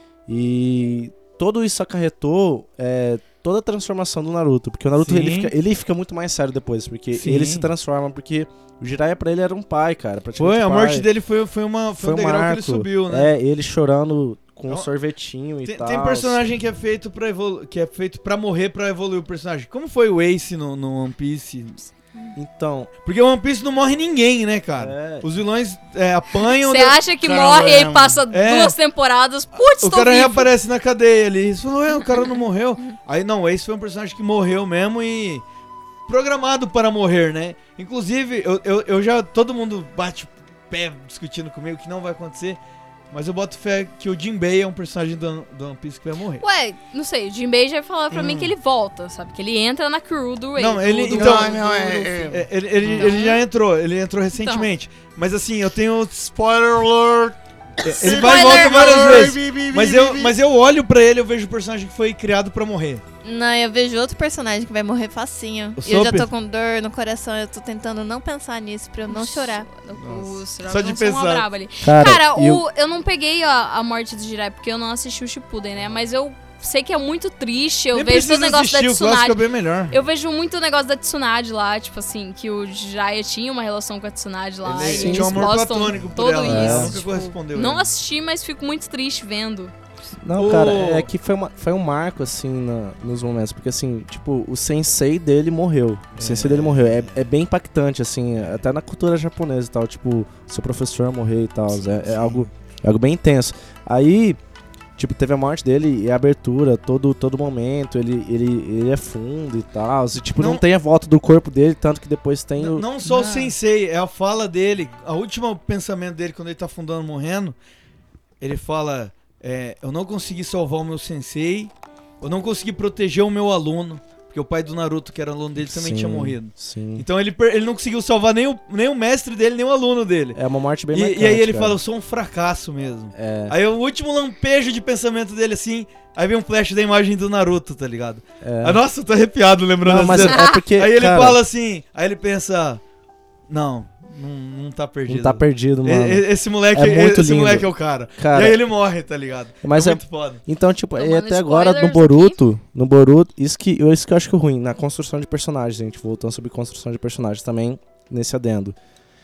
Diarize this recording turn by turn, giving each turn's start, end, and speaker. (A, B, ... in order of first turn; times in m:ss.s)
0:00.3-0:11.1 A
0:05.0-0:05.5 B
0:07.1-0:07.7 B
0:10.4-0:13.3 B
0:12.0-0:16.5 A
0:15.6-0:21.8 B
0:22.4-0:22.9 A
0:23.0-0:27.0 B
0:24.8-0:25.3 A
0:26.5-0:30.5 C
0:27.2-0:28.2 D
0:28.3-0:28.8 B
0:29.8-0:35.4 B
0:36.1-0:42.6 B
0:43.1-0:46.4 B
0:46.4-0:52.1 C
0:48.1-0:48.5 B
0:50.6-0:56.2 B
0:51.1-0:53.0 D
0:53.0-0:53.4 C
0:56.2-1:00.4 D
0:57.8-1:03.0 B
0:58.1-0:59.3 E
1:03.2-1:09.7 E
1:05.8-1:06.3 B
1:09.1-1:19.4 C
1:10.0-1:11.5 B
1:11.8-1:12.6 A
1:17.9-1:20.0 B
1:19.9-1:29.7 C
1:24.6-1:27.9 B
1:24.9-1:25.5 A
1:26.4-1:27.0 A
1:30.2-1:44.4 A
1:30.4-1:31.1 B
1:36.2-1:37.3 B
1:41.7-1:42.5 B
1:45.0-1:53.4 A
1:50.4-1:50.6 B
1:52.6-1:57.6 B
1:58.4-2:10.4 B
2:05.6-2:07.0 A
2:10.4-2:11.8 A
2:10.9-2:22.8 B
2:13.1-2:13.6 A
2:18.4-2:18.8 A
2:19.8-2:21.4 A
2:23.5-2:30.4 B
2:25.1-2:28.6 A
2:29.6-2:38.8 A
2:31.0-2:32.4 C